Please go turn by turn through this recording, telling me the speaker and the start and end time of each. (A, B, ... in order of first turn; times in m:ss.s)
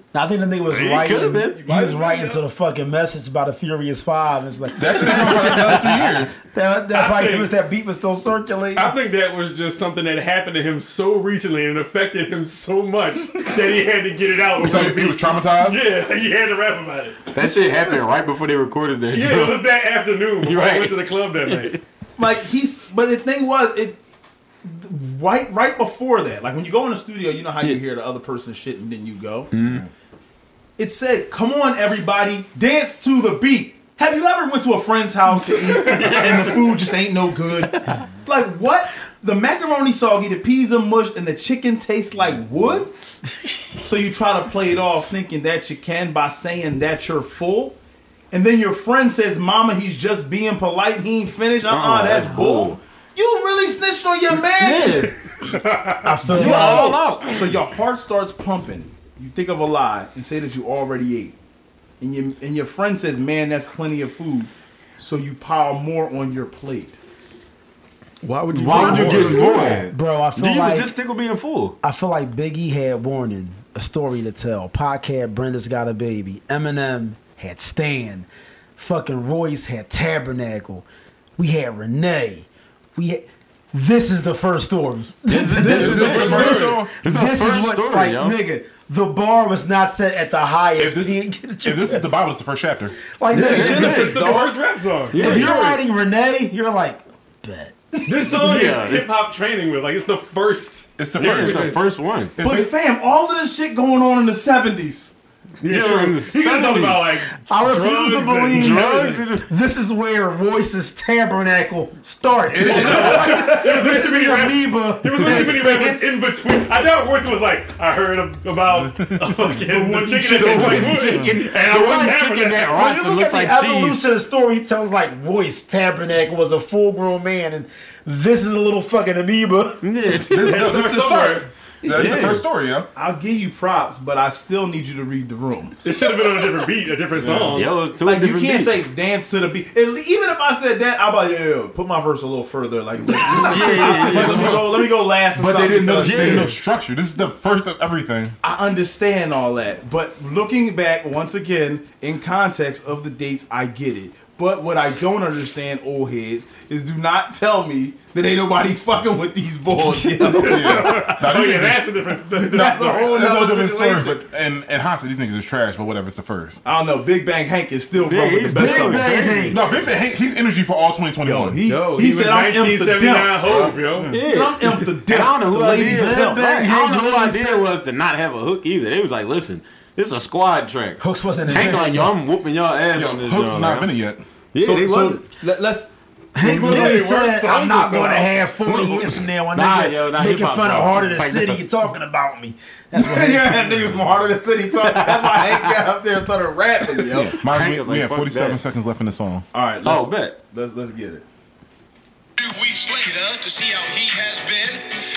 0:00.1-0:08.9 A
0:00.7-0:01.6 B
0:01.6-0:02.4 C
0:04.8-0:06.4 D
0:06.9-0:07.5 E
0:08.7-0:17.2 E
0:14.6-0:15.8 D
0:17.3-0:19.6 B
0:19.1-0:21.8 E
0:20.4-0:21.8 B
0:22.2-0:24.0 C
0:24.6-0:29.5 C
0:29.5-0:29.8 B
0:29.6-0:29.9 D
0:30.8-0:42.9 C
0:35.8-0:36.4 B
0:35.8-0:36.2 E
0:43.8-0:47.8 C
0:48.3-0:55.1 C
0:51.7-0:52.8 B
0:54.4-0:55.2 B
0:55.4-0:56.1 E
0:56.0-0:57.0 A
0:56.3-0:57.4 B
0:56.3-1:01.4 C
1:02.0-1:07.0 C
1:08.2-1:09.6 E
1:08.5-1:09.8 C
1:08.5-1:11.8 B
1:08.8-1:09.9 D
1:09.9-1:10.9 A
1:11.8-1:20.8 A
1:21.4-1:32.0 A
1:25.3-1:28.4 B
1:25.6-1:27.0 D
1:25.7-1:26.7 E
1:30.8-1:33.1 D
1:33.1-1:34.6 A
1:33.3-1:34.3 B
1:33.3-1:35.8 E
1:35.1-1:35.6 B
1:35.1-1:38.3 A
1:38.0-1:41.8 E
1:38.3-1:39.1 B
1:41.0-1:41.8 D
1:41.2-1:42.3 B
1:42.4-1:42.7 D
1:42.4-1:45.1 C
1:45.6-1:49.2 E
1:45.6-1:47.1 B
1:47.4-1:56.1 A
1:48.5-1:49.5 B
1:52.5-1:53.4 D
1:52.6-2:02.7 E
1:58.8-2:01.4 D
2:00.2-2:04.0 B
2:02.7-2:09.8 A
2:09.8-2:10.8 B
2:10.2-2:12.9 D
2:10.3-2:11.5 E
2:11.8-2:12.4 B
2:12.9-2:15.8 C
2:15.8-2:17.7 E
2:17.1-2:17.6 D
2:17.5-2:18.8 B
2:18.0-2:26.5 C
2:23.2-2:24.8 B
2:23.5-2:28.4 D
2:26.0-2:26.5 B
2:28.4-2:41.2 C
2:40.3-2:43.0 E
2:40.3-2:41.9 D
2:42.4-2:44.2 C
2:42.5-2:46.6 D
2:46.6-2:49.4 C
2:48.0-2:49.6 B
2:48.5-2:49.7 A
2:49.5-2:51.6 D
2:51.2-2:56.4 C
2:51.7-2:54.1 E
2:54.1-3:03.9 B
2:55.8-2:57.6 A
3:01.0-3:02.1 A
3:02.9-3:04.2 D
3:04.5-3:05.2 B
3:04.6-3:05.9 C
3:06.3-3:13.9 A
3:06.4-3:08.3 E
3:06.4-3:07.0 C
3:08.6-3:11.6 B
3:12.9-3:17.3 C
3:14.8-3:15.7 B
3:17.1-3:19.4 D
3:17.4-3:18.6 B
3:19.5-3:21.3 C
3:19.8-3:20.3 B
3:22.4-3:24.8 F